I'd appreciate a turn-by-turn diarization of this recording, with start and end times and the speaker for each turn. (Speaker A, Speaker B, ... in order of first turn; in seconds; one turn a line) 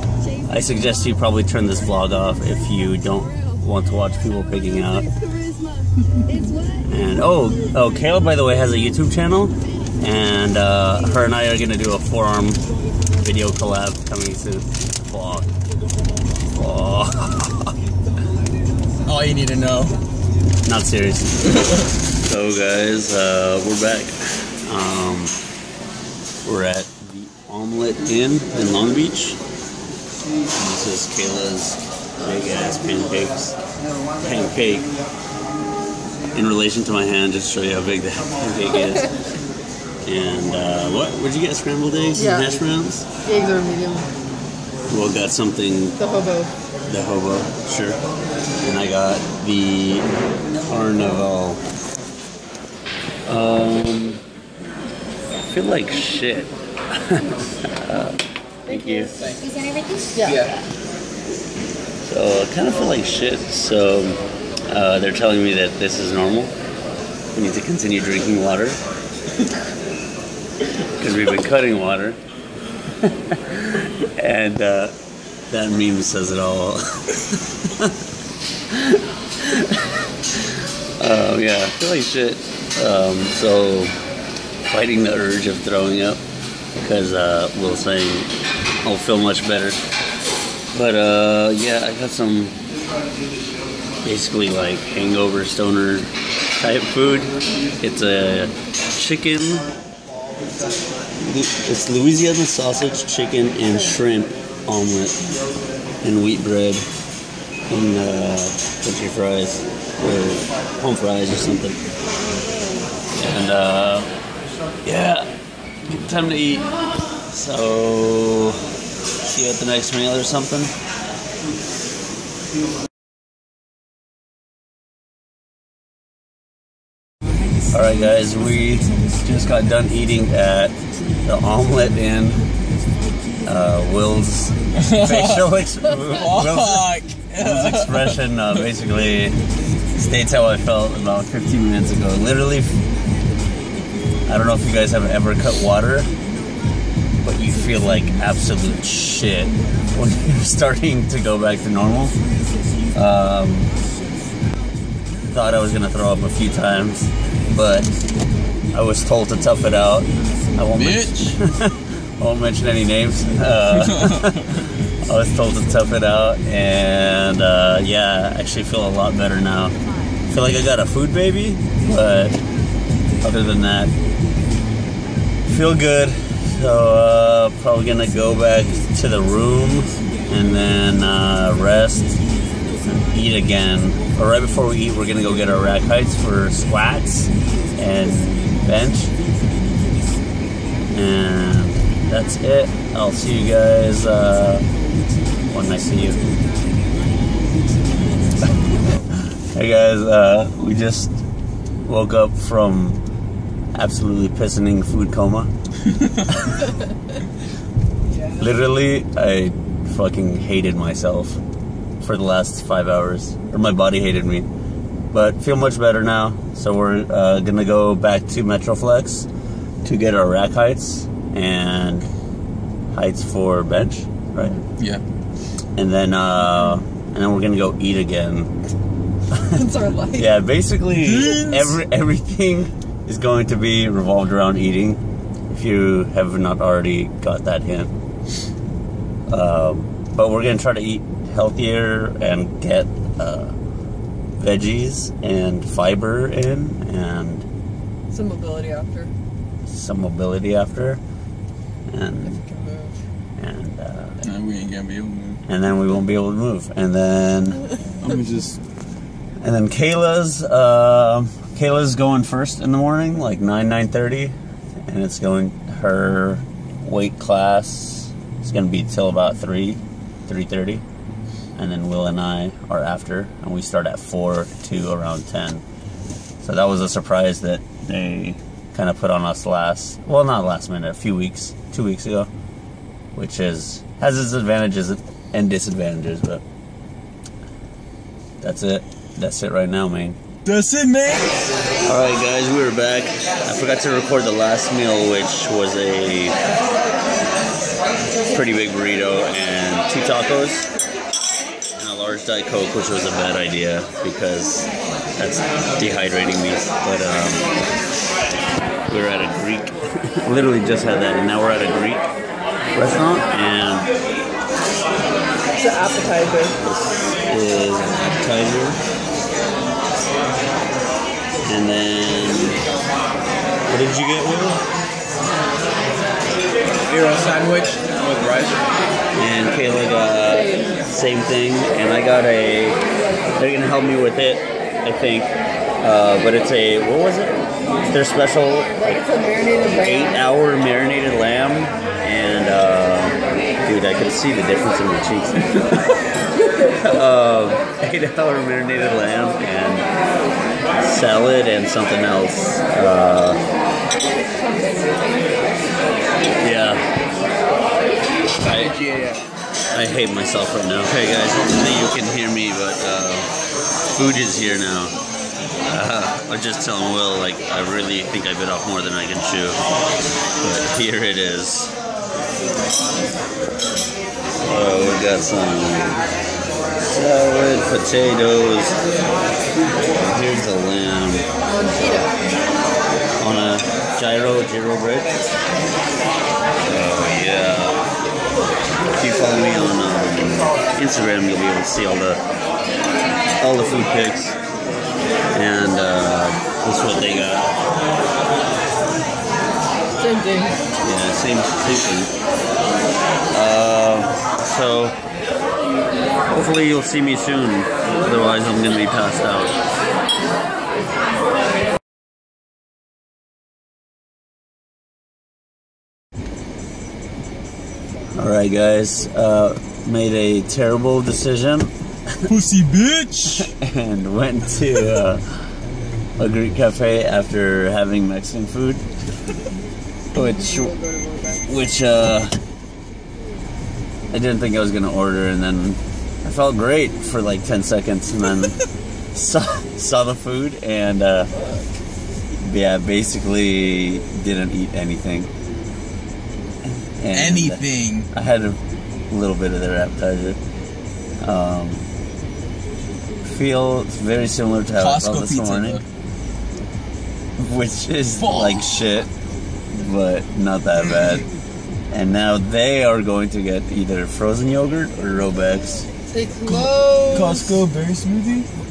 Speaker A: 0.5-5.1
Speaker A: 6.8-12.6
Speaker A: 13.2-15.5
Speaker A: 16.5-17.7
Speaker B: 19.1-20.0
Speaker A: 20.7-21.6
Speaker A: 22.2-25.3
Speaker A: 26.4-29.4
Speaker A: 30.5-33.6
Speaker A: 34.2-34.9
Speaker A: 36.3-39.2
Speaker A: 40.0-43.1
Speaker C: 42.2-42.5
Speaker C: 43.2-44.1
Speaker A: 44.9-46.0
Speaker C: 46.0-46.5
Speaker A: 46.9-48.0
Speaker A: 48.6-50.1
Speaker A: 50.7-51.6
Speaker A: 53.3-54.2
Speaker A: 55.4-59.2
Speaker B: 59.2-59.5
Speaker C: 60.1-60.4
Speaker B: 60.2-60.5
Speaker A: 62.0-66.5
Speaker A: 67.3-68.8
Speaker A: 71.0-72.2
Speaker A: 73.0-75.0
Speaker A: 75.5-78.0
Speaker A: 78.7-83.9
Speaker A: 84.7-86.2
Speaker A: 86.8-89.8
Speaker A: 90.7-92.6
Speaker A: 94.0-99.7
Speaker A: 101.2-105.2
Speaker A: 106.0-106.9
Speaker A: 107.7-111.8
Speaker A: 113.2-114.1
Speaker A: 114.8-115.3
Speaker A: 115.8-116.7
Speaker A: 117.2-118.7
Speaker A: 119.2-120.8
Speaker A: 127.7-132.4
Speaker A: 133.5-139.4
Speaker B: 134.8-138.2
Speaker A: 139.9-142.8
Speaker A: 144.3-146.1
Speaker A: 147.2-152.2
Speaker A: 152.9-153.7
Speaker A: 155.3-157.9
Speaker A: 158.7-169.8
Speaker B: 160.8-161.3
Speaker B: 163.7-164.4
Speaker A: 170.3-172.4
Speaker A: 173.2-173.9
Speaker A: 175.4-182.2
Speaker A: 182.9-189.2
Speaker A: 190.9-194.7
Speaker A: 195.5-196.3
Speaker A: 198.4-201.2
Speaker A: 201.8-203.0
Speaker A: 203.8-205.5
Speaker A: 206.3-206.7
Speaker C: 208.1-208.4
Speaker A: 208.4-211.4
Speaker A: 212.0-214.5
Speaker A: 215.1-219.3
Speaker A: 219.8-222.1
Speaker A: 222.9-224.6
Speaker C: 224.4-224.7
Speaker A: 225.8-228.5
Speaker C: 229.5-230.4
Speaker A: 230.2-237.9
Speaker B: 231.0-231.8
Speaker A: 239.3-243.6
Speaker A: 244.4-247.5
Speaker C: 248.1-249.1
Speaker A: 249.7-251.0
Speaker A: 251.9-252.4
Speaker C: 252.2-253.0
Speaker A: 253.4-254.2
Speaker B: 254.2-255.4
Speaker A: 255.5-257.6
Speaker B: 258.0-258.6
Speaker A: 259.4-270.8
Speaker A: 271.6-275.6
Speaker A: 276.4-282.3
Speaker A: 283.1-286.4
Speaker A: 288.4-290.2
Speaker B: 290.4-291.4
Speaker A: 291.9-296.4
Speaker A: 298.3-300.7
Speaker A: 301.8-307.5
Speaker A: 308.9-312.1
Speaker A: 312.7-313.9
Speaker C: 315.5-316.6
Speaker A: 316.6-318.8
Speaker A: 321.4-322.6
Speaker A: 323.7-324.6
Speaker B: 326.9-328.6
Speaker A: 329.1-332.8
Speaker A: 333.4-339.0
Speaker C: 338.8-340.2
Speaker A: 339.8-345.9
Speaker A: 346.7-349.9
Speaker A: 350.8-353.4
Speaker C: 354.4-355.0
Speaker A: 356.4-356.9
Speaker B: 358.4-359.2
Speaker A: 359.7-363.3
Speaker A: 363.9-365.0
Speaker A: 365.6-369.6
Speaker A: 370.4-371.8
Speaker A: 374.4-376.0
Speaker A: 376.8-378.8
Speaker A: 379.9-382.1
Speaker C: 381.5-382.1
Speaker A: 383.2-385.2
Speaker A: 386.6-387.9
Speaker A: 389.0-392.2
Speaker A: 393.4-394.4
Speaker A: 395.3-397.5
Speaker C: 400.0-400.6
Speaker A: 400.8-402.1
Speaker A: 403.3-405.0
Speaker A: 406.3-409.6
Speaker A: 418.1-422.2
Speaker B: 422.3-423.5
Speaker A: 423.3-425.2
Speaker A: 426.2-428.9
Speaker A: 430.1-430.7
Speaker C: 430.1-431.5
Speaker A: 431.5-432.3
Speaker A: 434.1-438.6
Speaker A: 439.1-441.3
Speaker A: 442.4-445.3
Speaker A: 446.7-450.4
Speaker B: 447.1-448.1
Speaker A: 451.2-451.9
Speaker A: 453.2-455.8
Speaker B: 454.8-455.8
Speaker A: 457.4-459.1
Speaker B: 458.2-458.6
Speaker A: 459.7-461.3
Speaker A: 461.9-465.9
Speaker C: 466.1-467.6
Speaker B: 466.5-468.5